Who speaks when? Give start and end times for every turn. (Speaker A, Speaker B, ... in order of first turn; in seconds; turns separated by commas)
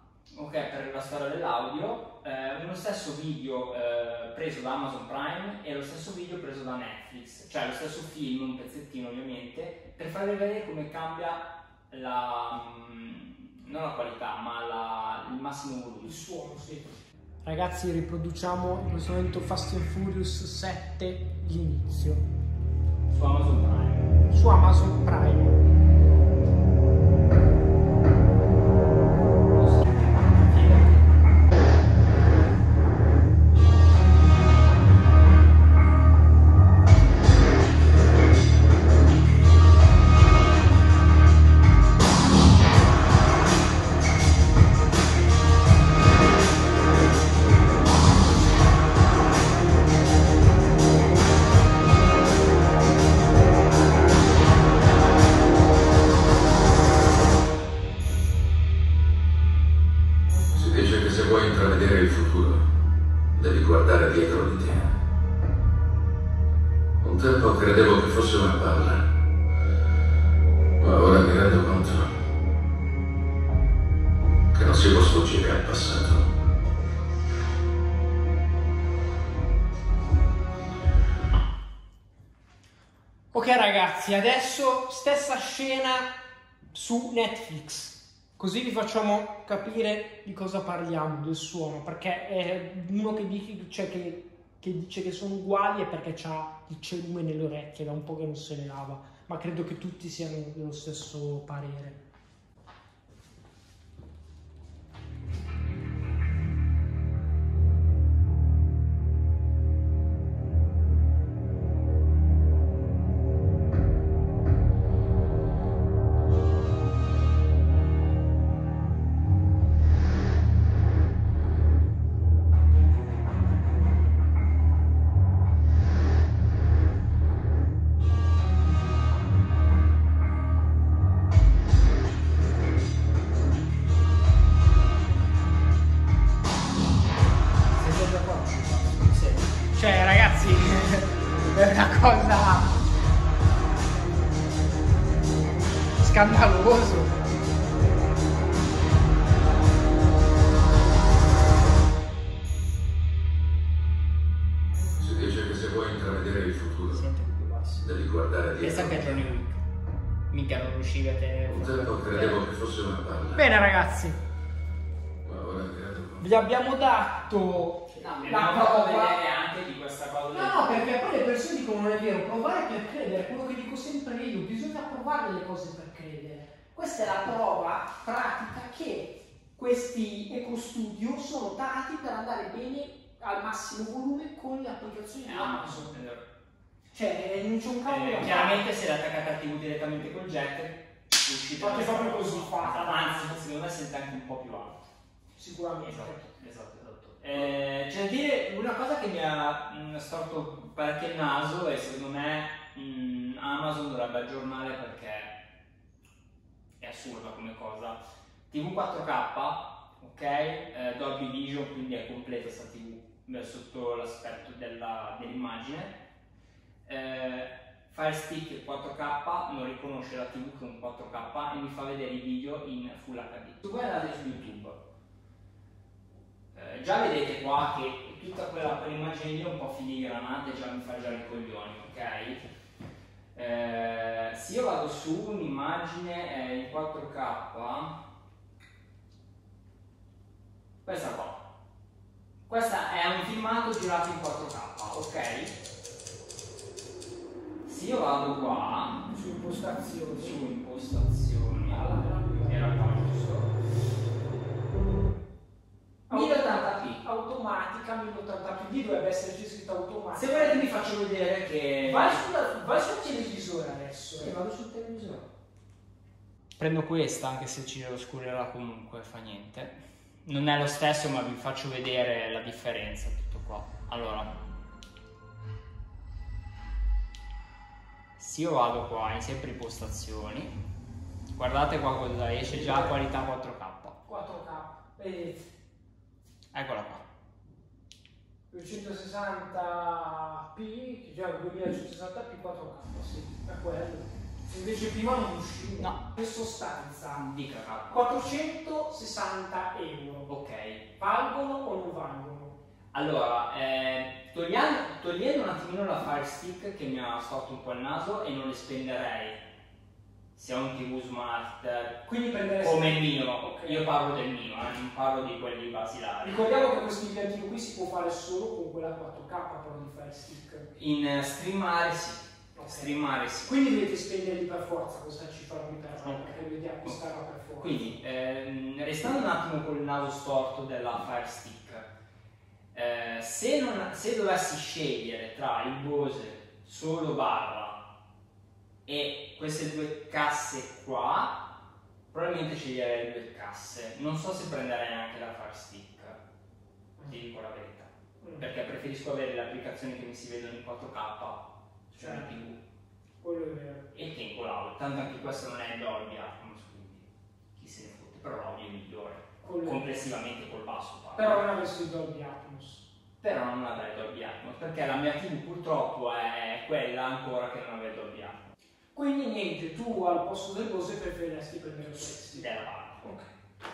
Speaker A: 0.3-16.1, Speaker B: 16.0-22.2, Speaker A: 23.1-24.1, Speaker B: 24.3-25.6, Speaker A: 29.5-31.0, Speaker B: 30.6-30.9, Speaker C: 60.5-62.6, Speaker C: 63.3-64.9, Speaker C: 67.0-69.0, Speaker C: 70.8-72.1, Speaker C: 74.5-76.2, Speaker B: 83.3-86.1, Speaker B: 86.7-102.0, Speaker B: 137.8-139.0, Speaker A: 139.0-139.4, Speaker B: 139.7-142.7, Speaker B: 146.0-147.2, Speaker C: 155.0-157.0, Speaker A: 156.9-157.8, Speaker C: 157.8-159.2, Speaker A: 158.6-159.6, Speaker A: 160.3-162.4, Speaker C: 161.5-163.4, Speaker B: 163.3-164.2, Speaker C: 165.2-166.2, Speaker B: 166.2-169.2, Speaker A: 167.9-170.9, Speaker B: 170.3-185.9, Speaker A: 185.2-186.2, Speaker B: 186.9-188.6, Speaker A: 187.8-194.9, Speaker B: 191.6-193.4, Speaker B: 195.3-196.3, Speaker A: 195.8-205.3, Speaker A: 206.8-215.9, Speaker A: 216.8-224.8, Speaker A: 226.5-232.4, Speaker A: 233.3-237.9, Speaker A: 240.8-241.4, Speaker A: 242.5-245.5, Speaker A: 247.7-249.1, Speaker B: 249.1-250.4, Speaker A: 250.2-253.5, Speaker B: 251.7-253.0, Speaker B: 256.1-260.8, Speaker A: 256.1-257.0, Speaker A: 260.1-262.2, Speaker B: 261.8-264.3, Speaker A: 264.2-265.3, Speaker A: 266.6-274.3, Speaker A: 278.2-280.5, Speaker A: 281.4-283.9, Speaker B: 282.4-283.0, Speaker B: 284.0-285.4, Speaker A: 286.5-287.0, Speaker B: 288.5-297.2, Speaker A: 297.1-298.2, Speaker B: 297.9-300.3, Speaker A: 300.3-300.8, Speaker B: 301.0-302.5, Speaker A: 302.9-309.4, Speaker A: 310.3-312.0, Speaker B: 312.0-313.9, Speaker A: 312.6-316.5, Speaker B: 316.2-320.6, Speaker A: 320.8-323.6, Speaker B: 322.5-328.0, Speaker A: 326.0-327.0, Speaker A: 327.6-331.9, Speaker A: 332.7-337.8, Speaker A: 338.9-341.4, Speaker A: 342.1-346.2, Speaker A: 347.1-352.6, Speaker B: 348.2-348.4, Speaker B: 351.9-352.3, Speaker B: 353.2-353.9, Speaker A: 353.9-357.0, Speaker A: 357.6-361.4, Speaker B: 359.4-359.9, Speaker B: 361.1-362.8, Speaker A: 363.2-368.4, Speaker B: 368.9-373.3, Speaker A: 372.3-373.1